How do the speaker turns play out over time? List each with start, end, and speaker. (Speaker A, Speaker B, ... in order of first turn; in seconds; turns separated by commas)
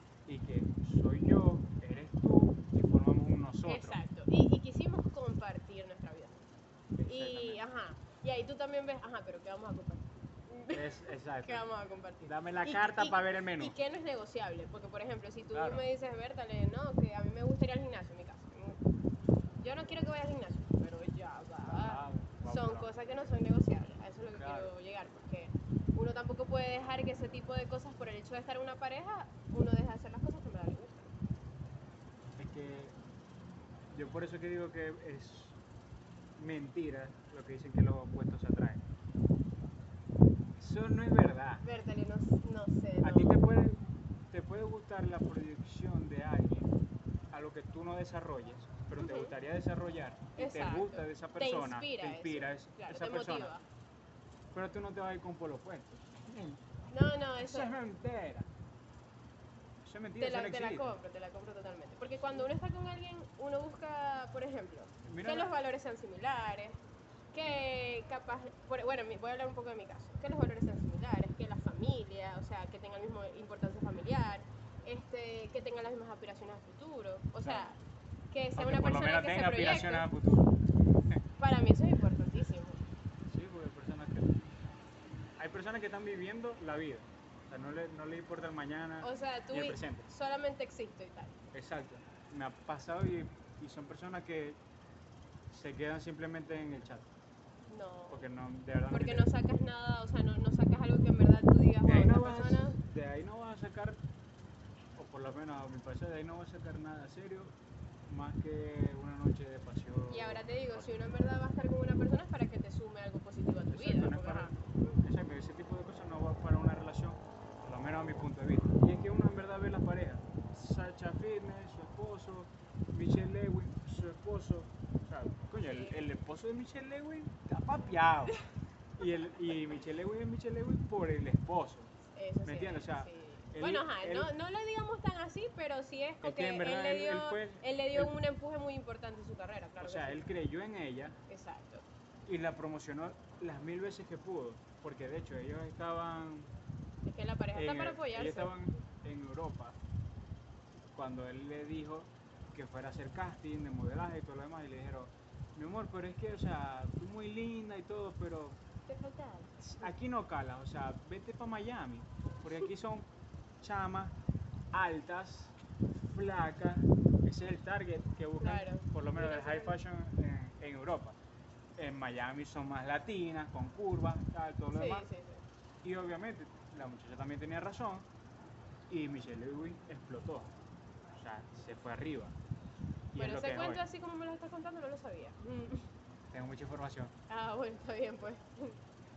Speaker A: 0.2-4.0, Speaker B: 3.6-6.5, Speaker A: 7.0-7.6, Speaker B: 7.1-18.8, Speaker A: 10.7-11.7, Speaker A: 12.2-13.8, Speaker A: 15.5-15.8, Speaker B: 19.6-31.1, Speaker A: 21.6-23.2, Speaker A: 24.3-24.7, Speaker A: 32.4-33.0, Speaker A: 33.9-35.6, Speaker A: 36.4-38.9, Speaker A: 40.6-41.6, Speaker B: 41.6-43.4, Speaker A: 43.0-46.7, Speaker A: 47.3-53.5, Speaker B: 49.0-49.3, Speaker B: 50.4-53.6, Speaker A: 54.5-56.6, Speaker B: 56.9-57.7, Speaker A: 57.4-58.5, Speaker A: 59.8-61.0, Speaker B: 60.2-66.8, Speaker A: 65.0-65.5, Speaker B: 67.3-77.8, Speaker A: 77.4-77.7, Speaker B: 78.3-80.1, Speaker A: 78.5-80.5, Speaker B: 81.4-82.8, Speaker A: 83.3-84.4, Speaker A: 85.4-90.1, Speaker B: 89.0-91.4, Speaker A: 91.5-94.6, Speaker A: 95.5-97.1, Speaker B: 97.7-98.2, Speaker A: 98.1-99.3, Speaker B: 98.9-102.8, Speaker A: 101.8-104.0, Speaker A: 105.0-111.0, Speaker B: 110.1-115.0, Speaker A: 113.7-128.4, Speaker B: 125.6-126.0, Speaker A: 129.0-131.9, Speaker B: 132.1-140.2, Speaker A: 132.4-134.3, Speaker A: 136.2-138.1, Speaker A: 139.8-141.2, Speaker B: 141.3-141.8, Speaker A: 142.2-146.5, Speaker B: 147.0-148.5, Speaker A: 147.5-149.8, Speaker A: 150.9-158.6, Speaker B: 158.9-159.9, Speaker A: 159.6-163.1, Speaker A: 163.6-164.2, Speaker A: 164.7-171.2, Speaker B: 168.4-169.8, Speaker A: 171.8-175.1, Speaker B: 174.7-175.4, Speaker A: 175.8-178.1, Speaker A: 178.9-180.5, Speaker A: 181.1-182.3, Speaker A: 183.1-183.8, Speaker B: 183.2-185.8, Speaker A: 186.3-187.1, Speaker B: 187.3-188.8